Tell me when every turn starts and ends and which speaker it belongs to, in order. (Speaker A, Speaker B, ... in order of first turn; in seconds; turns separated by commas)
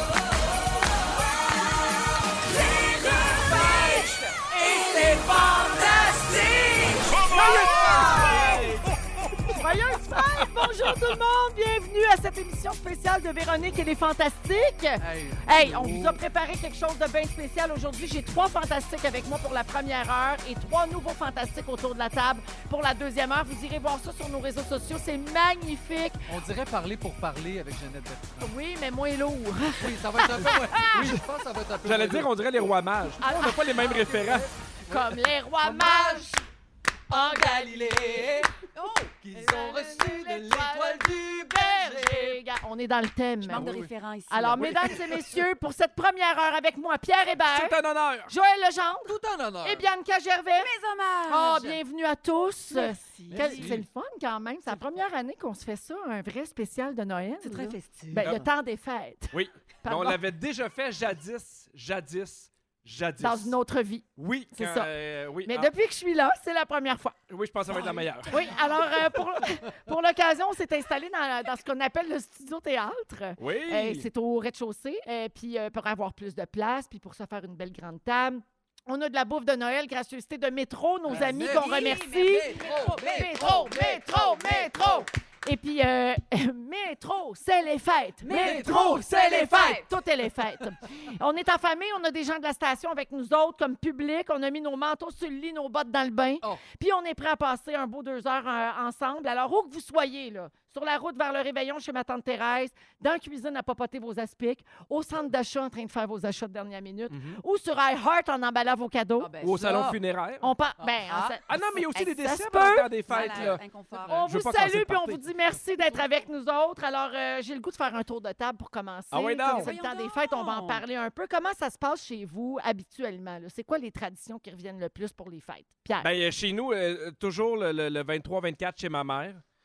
Speaker A: 3.5-4.0, Speaker A: 4.7-8.7, Speaker B: 7.2-8.9, Speaker A: 9.4-26.2, Speaker C: 15.0-16.2, Speaker C: 26.3-28.5, Speaker A: 28.4-31.1, Speaker C: 29.8-32.3, Speaker B: 31.8-34.5, Speaker A: 33.2-34.3, Speaker C: 33.9-36.4, Speaker A: 34.9-36.4, Speaker C: 37.1-38.5, Speaker A: 37.1-38.3, Speaker D: 38.7-39.1, Speaker C: 39.2-42.4, Speaker A: 39.3-43.7, Speaker D: 43.4-45.0, Speaker C: 43.5-43.9, Speaker A: 44.3-47.8, Speaker B: 47.5-48.3, Speaker A: 48.3-50.7, Speaker C: 49.0-49.9, Speaker D: 50.5-51.8, Speaker A: 51.3-60.2, Speaker D: 52.7-53.8, Speaker C: 53.3-53.9, Speaker D: 57.4-58.3, Speaker C: 58.2-58.5, Speaker B: 59.3-63.5, Speaker A: 63.2-64.9, Speaker B: 64.2-65.7, Speaker A: 65.4-67.2, Speaker B: 67.3-68.5, Speaker D: 67.7-68.6, Speaker A: 68.3-109.3, Speaker B: 73.4-74.0, Speaker C: 81.0-84.5, Speaker D: 81.1-84.6, Speaker D: 88.2-89.9, Speaker C: 88.3-89.0, Speaker B: 107.1-107.4, Speaker D: 109.2-110.0, Speaker B: 109.4-110.5, Speaker A: 110.4-126.1, Speaker D: 111.1-111.4, Speaker B: 111.5-115.2, Speaker D: 113.1-114.3, Speaker B: 119.1-119.7, Speaker D: 119.5-120.8, Speaker B: 126.0-129.4